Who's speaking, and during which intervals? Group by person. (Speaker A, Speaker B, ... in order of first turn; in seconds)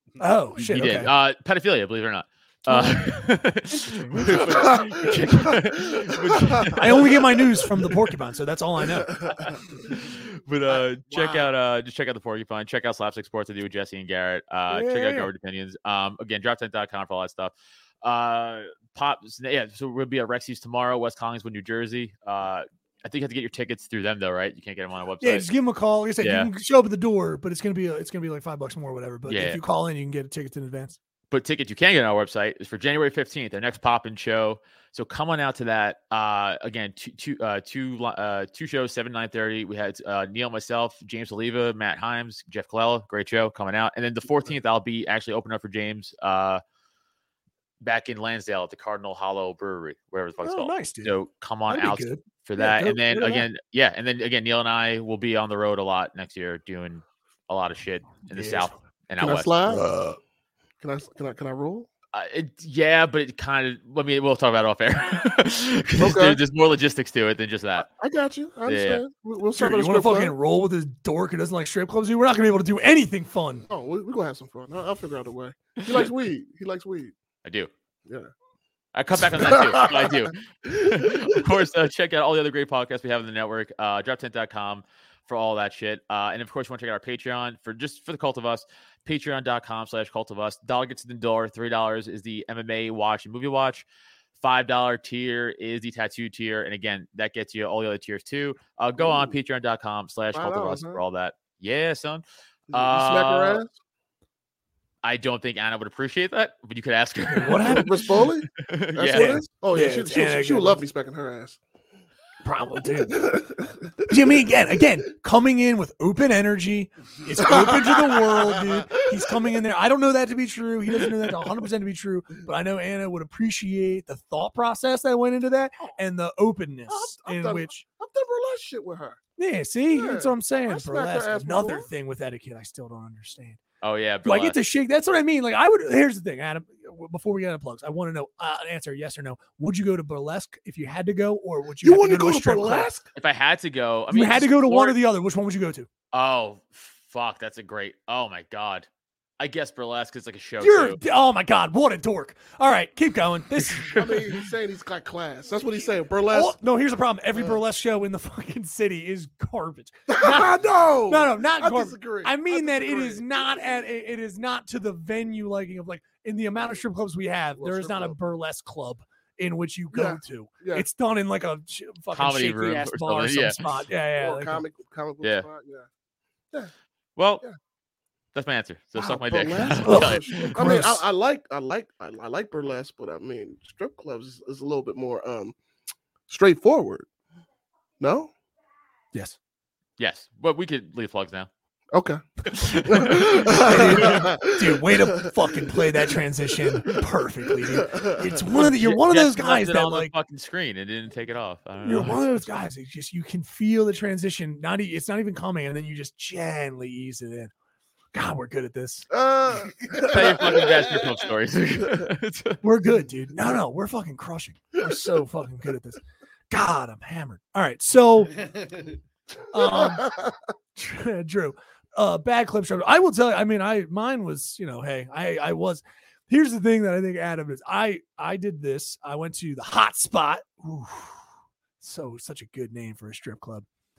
Speaker A: 0.2-1.1, 2.7-4.7, 6.7-9.2, 14.7-15.3, 25.2-31.0, 50.4-51.1, 51.7-53.5, 58.3-58.8, 59.7-60.2, 69.5-73.7, 107.3-108.0, 109.1-110.8, 112.4-113.3, 114.1-127.8, 129.4-133.6, 134.2-142.9, 144.1-145.9, 150.6-154.2, 156.3-160.6, 161.1-174.6, 179.8-181.0, 193.5-200.1, 201.8-207.5, 208.1-209.1, 212.6-218.3, 219.5-220.1, 220.8-231.2, 231.8-233.7
Speaker B: 0.6-7.1, 9.3-25.5, 26.2-26.5, 29.3-29.6, 31.3-46.6, 47.8-59.6, 62.1-67.9, 68.7-69.0, 77.4-77.7, 78.9-93.8, 94.4-103.6, 105.0-109.4, 133.8-134.6, 143.2-145.0, 146.1-148.9, 149.4-151.0, 153.7-154.3, 172.1-173.6, 177.2-177.4, 178.3-180.8, 190.0-191.5, 192.5-194.2, 198.5-202.2, 210.1-212.6
Speaker C: 4.2-7.2, 9.0-9.6, 10.7-11.5, 59.2-59.8, 60.8-61.9, 66.0-66.4, 67.8-70.3, 73.7-77.1, 79.2-81.5, 99.0-99.4, 100.3-101.0, 102.7-103.7, 107.6-111.6, 113.1-114.1, 117.4-118.9, 126.9-129.2, 129.9-131.9, 141.8-143.1, 153.9-156.5, 157.3-157.6, 160.1-163.8, 167.6-168.2, 169.9-170.9, 174.2-175.9, 178.9-185.6, 186.3-187.1, 188.0-188.3, 191.9-192.2, 192.8-196.1, 197.7-198.4, 209.1-211.0, 219.6-220.3